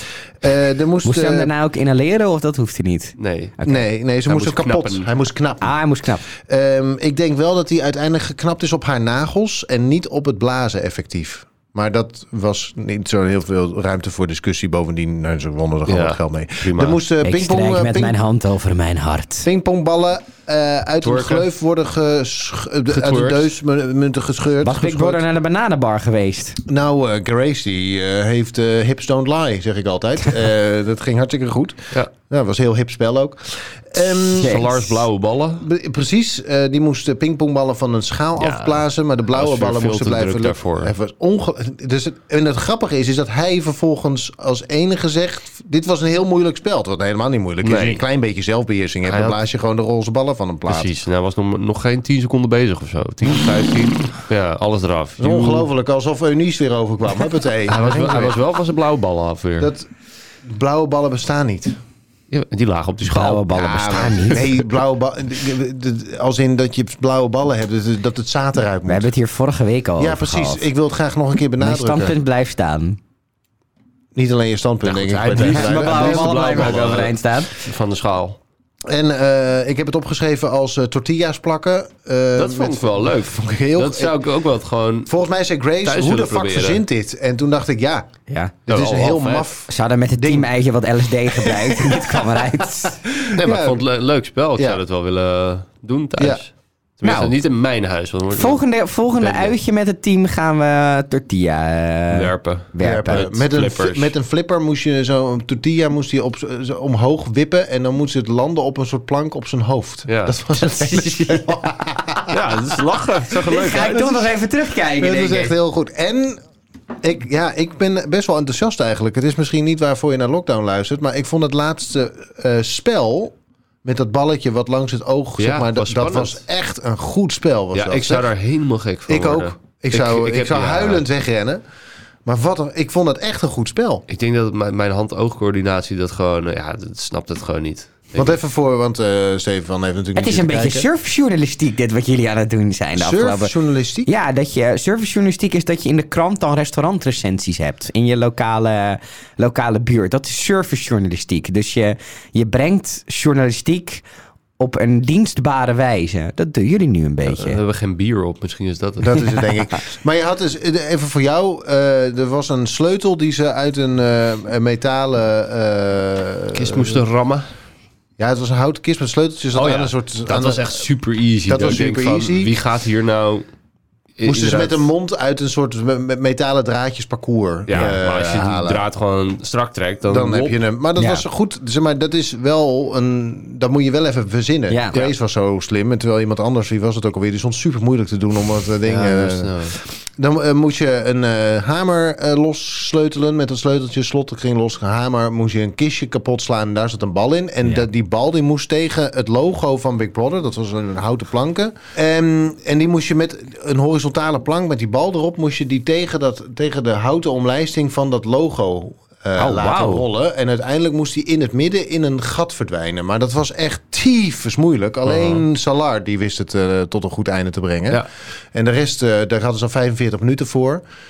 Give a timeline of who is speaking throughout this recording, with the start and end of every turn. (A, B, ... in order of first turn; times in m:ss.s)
0:00.4-0:01.5 A
0:01.0-0:03.8 B
0:03.2-0:03.5 C
0:03.6-0:18.2 A
0:04.2-0:05.1 C
0:05.6-0:06.2 B
0:15.9-0:17.0 C
0:17.2-0:19.4 B
0:19.4-0:25.2 A
0:21.0-0:21.4 C
0:22.9-0:23.5 C
0:24.6-0:26.6 B
0:26.7-0:34.6 A
0:34.1-0:35.7 C
0:34.3-0:35.0 B
0:35.6-0:50.9 A
0:38.4-0:40.9 C
0:47.6-0:48.0 C
0:49.0-0:49.4 C
0:50.7-0:55.7 C
0:55.2-0:58.4 A
0:57.7-0:59.7 C
0:59.6-0:59.9 A
1:00.4-1:01.8 A
1:02.3-1:03.5 C
1:03.0-1:04.6 B
1:03.5-1:09.1 A
1:08.9-1:10.6 B
1:10.0-1:12.1 A
1:11.6-1:13.0 B
1:14.1-1:17.0 A
1:14.8-1:18.4 C
1:15.4-1:17.6 B
1:18.9-1:24.1 A
1:22.4-1:25.1 C
1:25.0-1:28.1 A
1:25.8-1:26.8 C
1:28.3-1:28.5 B
1:28.7-1:30.5 A
1:28.7-1:29.5 C
1:29.7-1:33.0 B
1:31.3-1:32.4 A
1:33.1-1:33.8 A
1:33.4-1:38.6 C
1:37.0-1:37.3 B
1:38.3-1:43.2 B
1:39.2-1:39.5 C
1:42.1-1:44.1 C
1:42.8-1:52.4 A
1:50.1-1:50.3 C
1:50.6-1:51.6 B
1:52.3-1:54.0 C
1:53.4-1:55.5 B
1:53.9-1:54.2 A
1:55.0-1:56.4 A
1:57.0-2:08.3 A
2:05.4-2:06.4 C
2:07.7-2:11.0 C
2:09.1-2:11.6 A
2:12.2-2:14.0 A
2:14.1-2:18.4 C
2:18.1-2:20.8 A
2:20.1-2:23.5 B
2:23.0-2:24.1 A
2:24.0-2:34.0 B
2:34.6-2:37.6 B
2:37.3-2:39.3 C
2:39.0-2:47.0 A
2:46.5-2:47.5 C
2:48.2-2:50.8 A
2:49.5-2:53.4 C
2:51.5-2:52.5 A
2:54.2-2:54.8 C
2:54.2-2:58.8 A
2:57.7-3:00.6 C
3:00.1-3:40.8 A
3:01.0-3:01.2 B
3:04.7-3:05.0 B
3:08.8-3:09.7 C
3:29.4-3:30.0 B
3:35.0-3:35.4 C